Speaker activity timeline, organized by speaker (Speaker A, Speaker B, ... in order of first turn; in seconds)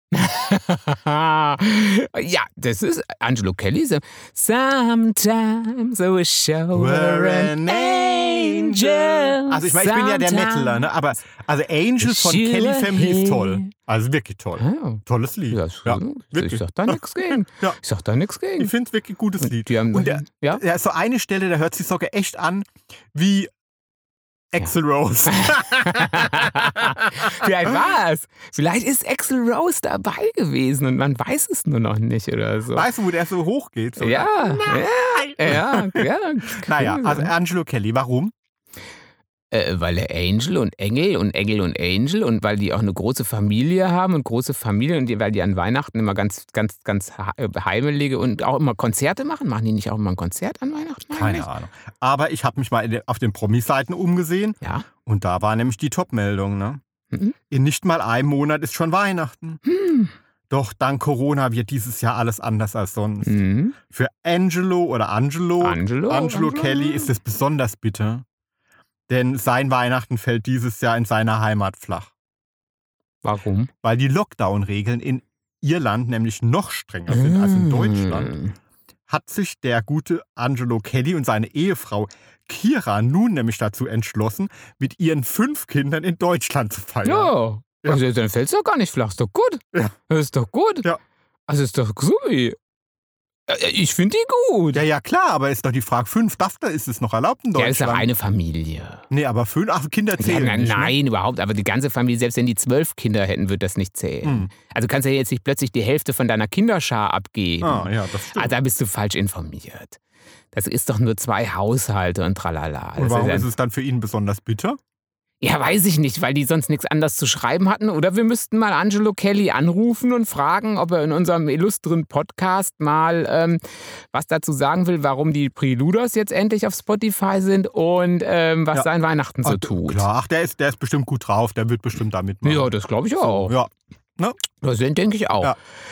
Speaker A: 0.1-10.9, 12.0-13.7, 14.6-18.7, 19.4-20.6, 25.3-32.9, 34.0-37.3, 39.5-51.5, 54.6-54.9, 59.6-60.1, 63.2-63.8, 65.6-67.1, 73.2-73.7, 77.1-78.5, 87.0-90.9, 91.5-92.6, 93.5-94.8, 97.5-99.0, 100.2-110.0, 110.5-113.5, 115.4-130.1, 132.4-133.6, 134.6-135.6
Speaker B: 6.7-17.8, 18.6-23.5, 24.5-27.8, 32.7-38.3, 51.1-56.8, 57.5-59.6, 60.5-63.3, 63.9-68.2, 69.1-72.1, 73.8-78.3, 79.1-87.3, 94.7-98.1, 99.1-101.0, 104.2-104.5, 107.6-108.5, 113.0-114.8, 129.4-134.4